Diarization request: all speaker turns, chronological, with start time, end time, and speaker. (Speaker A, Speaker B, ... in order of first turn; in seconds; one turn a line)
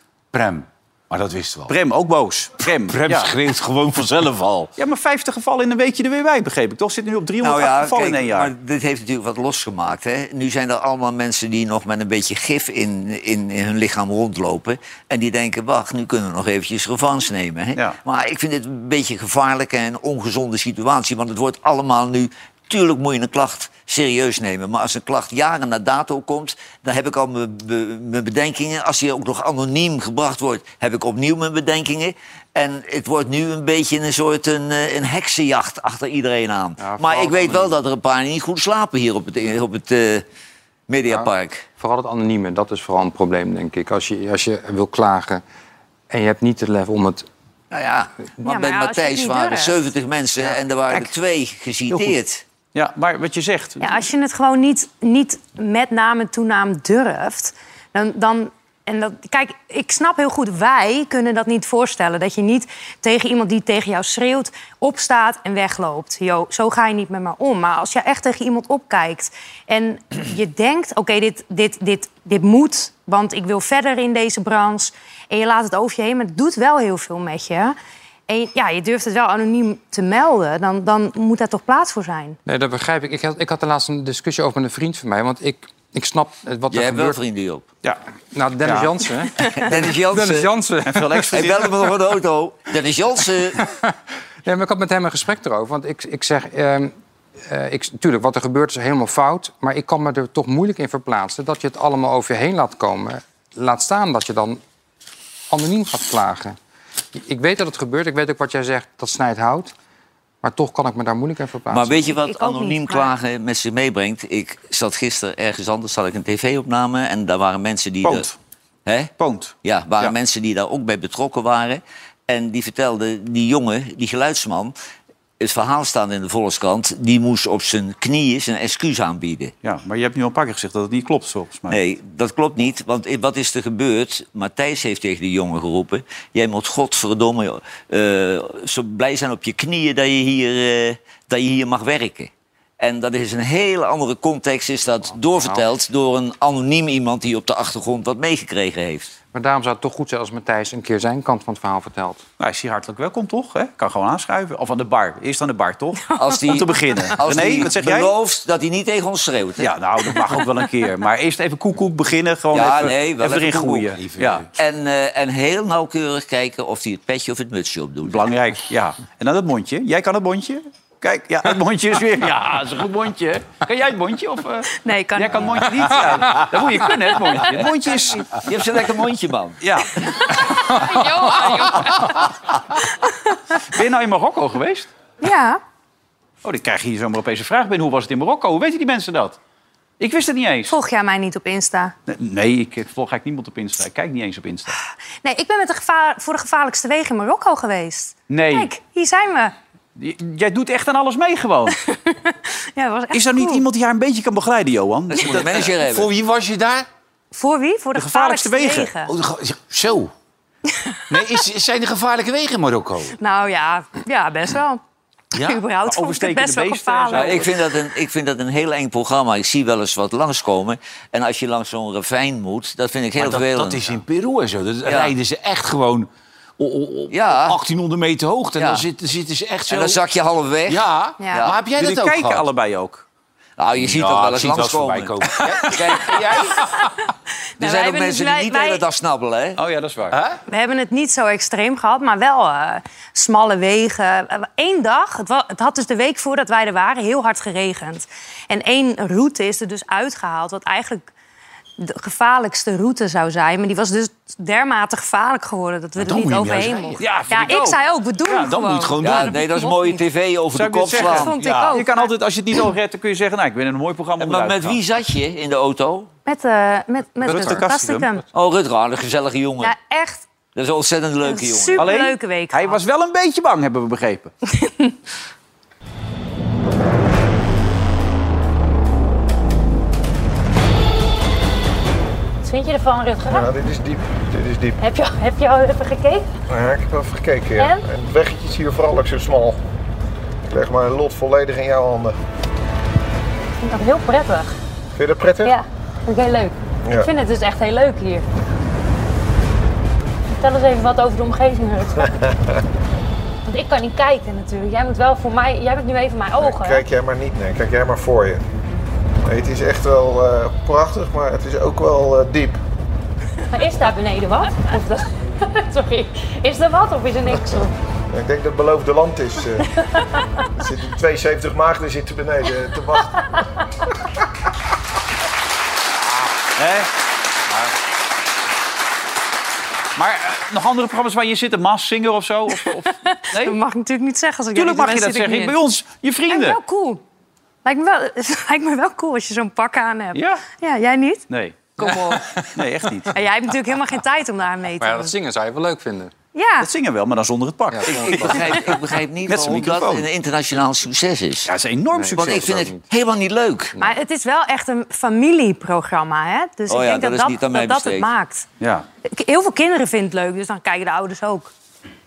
Speaker A: 0.3-1.7
Speaker B: 1.7-3.3
Speaker A: 2.9-4.7
Speaker B: 4.8-8.5
Speaker C: 7.4-40.2
Speaker D: 36.8-37.7
Speaker C: 40.9-41.7
Speaker D: 41.8-45.4
Speaker D: 46.1-47.3
Speaker C: 47.7-52.4
Speaker E: 48.4-49.8
Speaker B: 52.7-54.0
Speaker E: 53.8-77.8
Speaker E: 78.3-82.4
Speaker D: 82.5-87.2
Speaker C: 86.7-87.7
Speaker D: 88.3-91.4
Speaker B: 88.6-88.9
Speaker C: 89.4-90.5
Speaker B: 90.8-91.9
Speaker C: 91.3-93.7
Speaker D: 93.6-93.9
Speaker D: 94.5-96.9
Speaker D: 97.5-104.6
Speaker D: 105.5-106.6
Speaker D: 107.2-109.7
Speaker D: 110.4-112.1
Speaker C: 111.7-118.3
Speaker E: 112.2-113.1
Speaker B: 118.0-118.3
Speaker C: 118.9-119.1
Speaker B: 119.2-120.2
Speaker C: 119.6-124.7
Speaker C: 125.4-129.5
Speaker B: 129.6-131.8
Speaker C: 131.7-149.1
Speaker D: 149.3-152.2
Speaker B: 152.4-158.1
Speaker C: 156.2-159.7
Speaker B: 159.6-164.4
Speaker C: 162.5-163.9
Speaker A: 164.0-164.5
Speaker C: 164.6-168.2
Speaker B: 168.0-178.3
Speaker E: 174.8-175.5
Speaker C: 178.4-179.6
Speaker B: 179.6-180.0
Speaker E: 180.5-182.2
Speaker B: 181.4-182.0
Speaker E: 183.0-183.4
Speaker B: 183.6-184.9
Speaker E: 185.2-185.6
Speaker B: 186.4-189.4
Speaker B: 190.0-190.8
Speaker E: 190.7-191.9
Speaker B: 192.1-194.8
Speaker E: 195.2-199.5
Speaker B: 198.3-198.7
Speaker B: 200.0-201.8
Speaker E: 201.9-203.6
Speaker B: 203.1-205.7
Speaker C: 205.1-206.1
Speaker A: 205.8-206.9
Speaker E: 207.3-209.1
Speaker B: 208.0-208.9
Speaker A: 209.1-210.1
Speaker E: 210.7-211.0
Speaker A: 211.1-213.2
Speaker E: 213.2-214.8
Speaker A: 215.3-215.6
Speaker E: 215.4-217.4
Speaker B: 215.8-217.5
Speaker C: 217.1-224.0
Speaker A: 223.2-230.0
Speaker C: 224.8-225.1
Speaker C: 227.1-227.6
Speaker C: 228.6-228.8
Speaker C: 229.7-231.6
Speaker A: 230.7-232.5
Speaker E: 231.2-231.5
Speaker B: 231.8-233.0
Speaker C: 233.6-236.6
Speaker A: 233.8-236.9
Speaker E: 237.6-238.8
Speaker C: 237.6-239.6
Speaker B: 239.6-240.2
Speaker A: 240.1-240.4
Speaker E: 240.5-251.1
Speaker E: 251.8-260.0
Speaker A: 256.0-257.5
Speaker B: 257.0-257.8
Speaker A: 258.3-259.4
Speaker C: 259.0-261.4
Speaker B: 260.5-264.8
Speaker E: 261.1-262.1
Speaker A: 261.4-261.8
Speaker C: 264.2-266.1
Speaker E: 266.3-268.2
Speaker D: 267.3-267.6
Speaker B: 267.3-268.1
Speaker C: 268.3-269.8
Speaker E: 269.6-270.2
Speaker C: 270.6-271.9
Speaker E: 271.2-272.8
Speaker B: 271.8-274.3
Speaker E: 274.5-274.9
Speaker F: 282.4-283.6
Speaker G: 283.3-284.8
Speaker F: 284.8-286.3
Speaker G: 286.5-289.6
Speaker F: 287.6-287.9
Speaker G: 290.4-292.2
Speaker F: 293.6-294.6
Speaker G: 294.9-295.6
Speaker F: 295.4-298.2
Speaker F: 300.4-302.0
Speaker F: 303.5-306.8
Speaker G: 306.4-308.4
Speaker G: 309.2-312.6
Speaker F: 313.5-317.7
Speaker G: 318.1-319.7
Speaker G: 320.6-323.2
Speaker B: 326.6-326.9
Speaker B: 330.0-333.6
Speaker E: 332.9-335.6
Speaker B: 334.5-336.6
Speaker E: 336.3-337.0
Speaker E: 337.6-341.2
Speaker B: 340.1-340.4
Speaker B: 341.3-341.7
Speaker C: 341.8-342.2
Speaker D: 341.9-342.2
Speaker B: 342.5-343.1
Speaker E: 343.1-345.1
Speaker D: 344.8-346.1
Speaker E: 346.3-346.7
Speaker B: 346.6-348.7
Speaker D: 347.7-348.7
Speaker C: 347.9-351.5
Speaker B: 349.3-350.1
Speaker B: 351.5-352.6
Speaker D: 351.9-352.8
Speaker C: 352.1-353.8
Speaker E: 353.8-358.4
Speaker C: 356.7-358.1
Speaker B: 358.6-358.9
Speaker E: 359.1-361.5